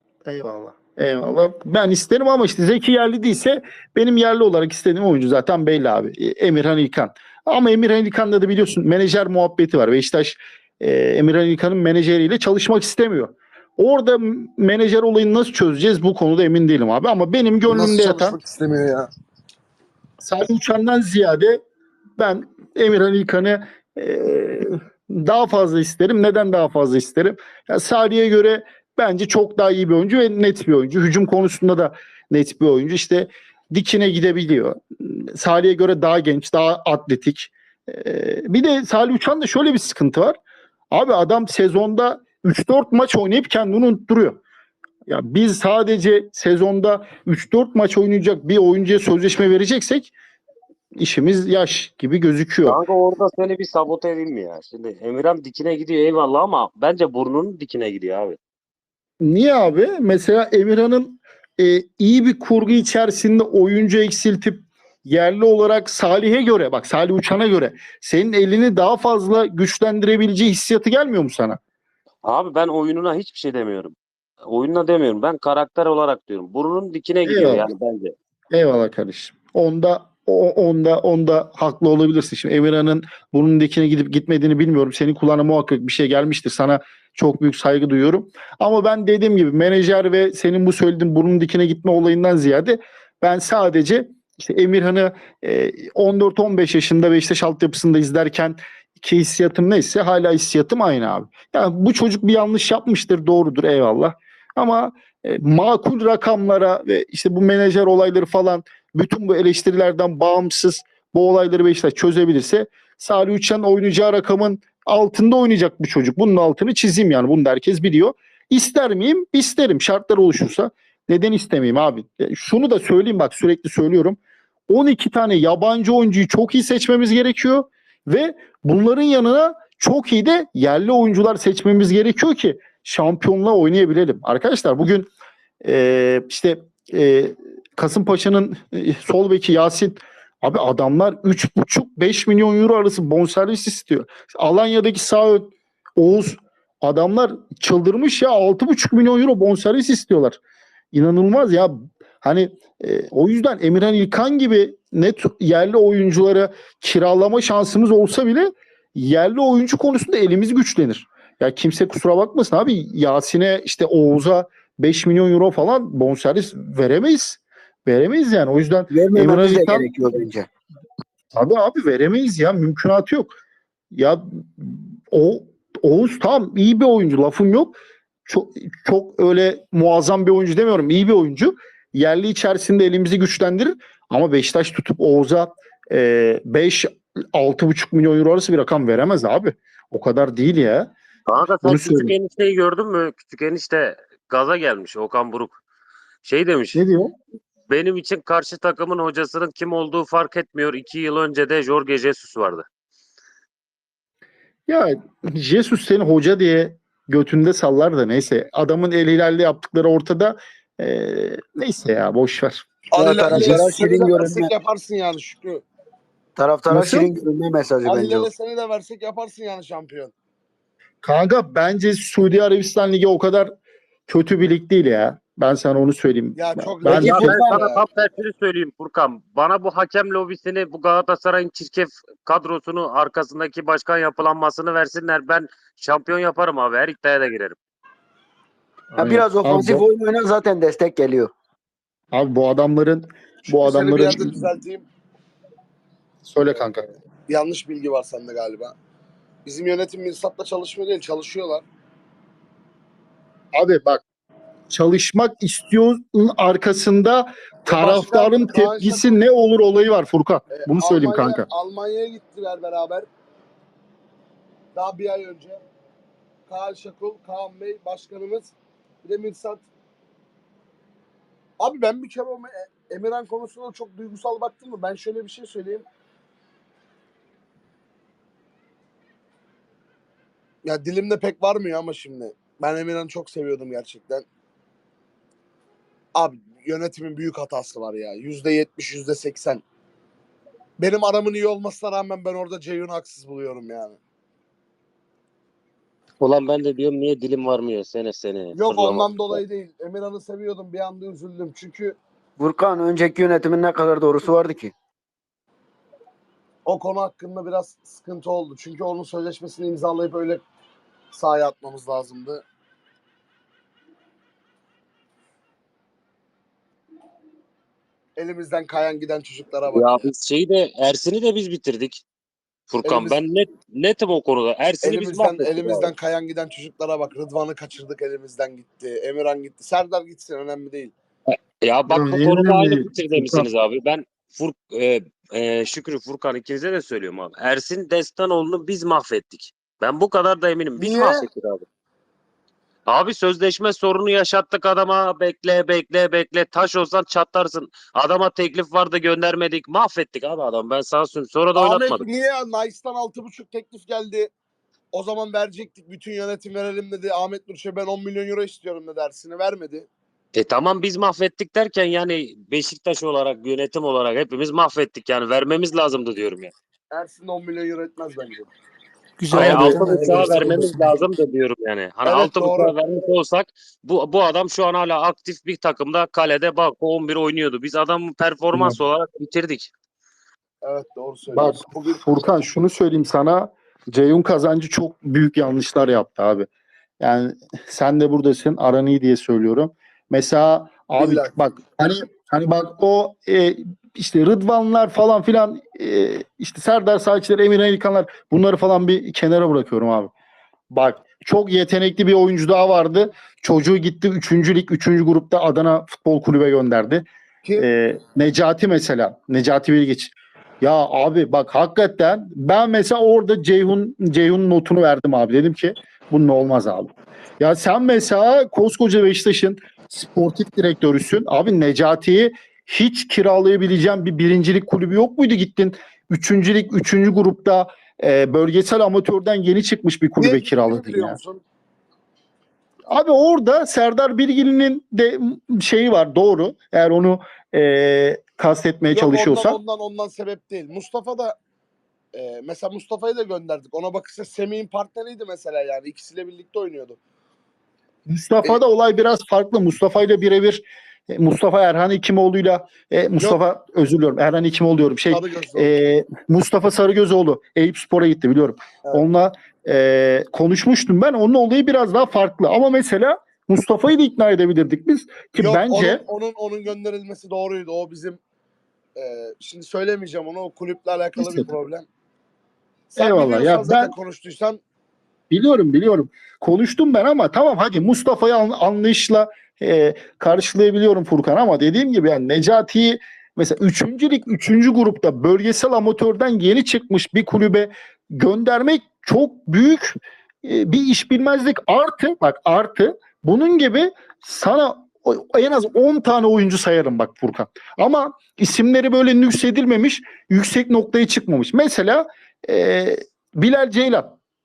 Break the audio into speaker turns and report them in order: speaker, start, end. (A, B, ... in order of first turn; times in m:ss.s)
0:00.3-0:18.4 A
0:17.7-0:19.1 B
0:20.2-0:21.6 A
0:22.2-0:40.4 A
0:40.9-0:44.4 A
0:45.1-0:50.1 A
0:51.0-0:52.8 A
0:52.7-0:58.4 C
0:59.2-1:11.6 A
1:12.2-1:18.2 C
1:17.2-1:17.7 A
1:18.5-2:04.2 A
2:04.7-2:15.1 A
2:15.6-2:30.4 A
2:30.9-2:49.9 A
2:48.9-2:50.5 D
2:51.3-2:53.4 A
2:53.9-3:10.9 A
3:11.3-3:15.6 C
3:11.6-3:12.2 A
3:16.2-3:16.8 C
3:16.7-3:17.1 A
3:17.7-3:22.6 C
3:24.7-3:32.7 A
3:32.9-3:35.6 B
3:33.0-3:34.5 D
3:33.4-3:33.6 A
3:36.4-3:38.3 D
3:36.7-3:37.1 A
3:37.8-3:40.1 B
3:41.0-3:43.5 A
3:44.1-3:47.4 A
3:46.4-3:47.8 B
3:46.9-3:57.6 C
3:47.0-3:47.6 D
3:59.0-3:59.8 A
3:59.0-4:01.3 D
4:02.1-4:04.5 A
4:03.5-4:04.8 B
4:06.2-4:06.9 A
4:07.3-4:08.7 B
4:09.5-4:11.6 B
4:13.6-4:14.0 A
4:14.7-4:21.5 A
4:17.7-4:19.2 B
4:20.5-4:23.1 B
4:24.7-4:25.6 B
4:26.5-4:28.5 B
4:29.0-4:29.7 B
4:31.6-4:35.9 B
4:40.6-4:44.3 B
4:46.1-4:49.6 B
4:50.8-4:54.0 B
4:56.2-4:59.2 C
4:58.5-5:02.0 B
5:02.4-5:04.7 D
5:06.7-5:10.4 B
5:11.1-5:12.4 B
5:18.2-5:20.1 B
5:19.7-5:22.0 C
5:22.7-5:25.9 C
5:22.8-5:23.2 B
5:24.8-5:30.9 B
5:31.6-5:41.6 C
5:31.9-5:33.5 A
5:40.8-5:41.2 B
5:42.9-5:52.1 C
5:51.6-5:54.3 B
5:54.9-5:59.9 B
6:00.3-6:06.5 C
6:06.9-6:08.5 B
6:09.3-6:10.9 A
6:09.3-6:19.7 C
6:12.1-6:12.8 B
6:18.5-6:18.8 A
6:20.6-6:22.0 B
6:21.3-6:26.5 A
6:27.0-6:40.1 A
6:31.0-6:31.4 B
6:40.7-6:47.0 A
6:47.6-7:11.2 A
7:10.2-7:11.4 B
7:12.9-7:19.6 A
7:18.9-7:21.4 B
7:22.1-7:27.0 B
7:28.1-7:46.0 A
7:35.1-7:35.7 B
7:45.4-7:48.2 B
7:49.0-7:51.8 B
7:51.2-7:51.5 A
7:52.9-7:54.6 B
7:53.0-7:54.0 A
7:55.3-8:24.2 A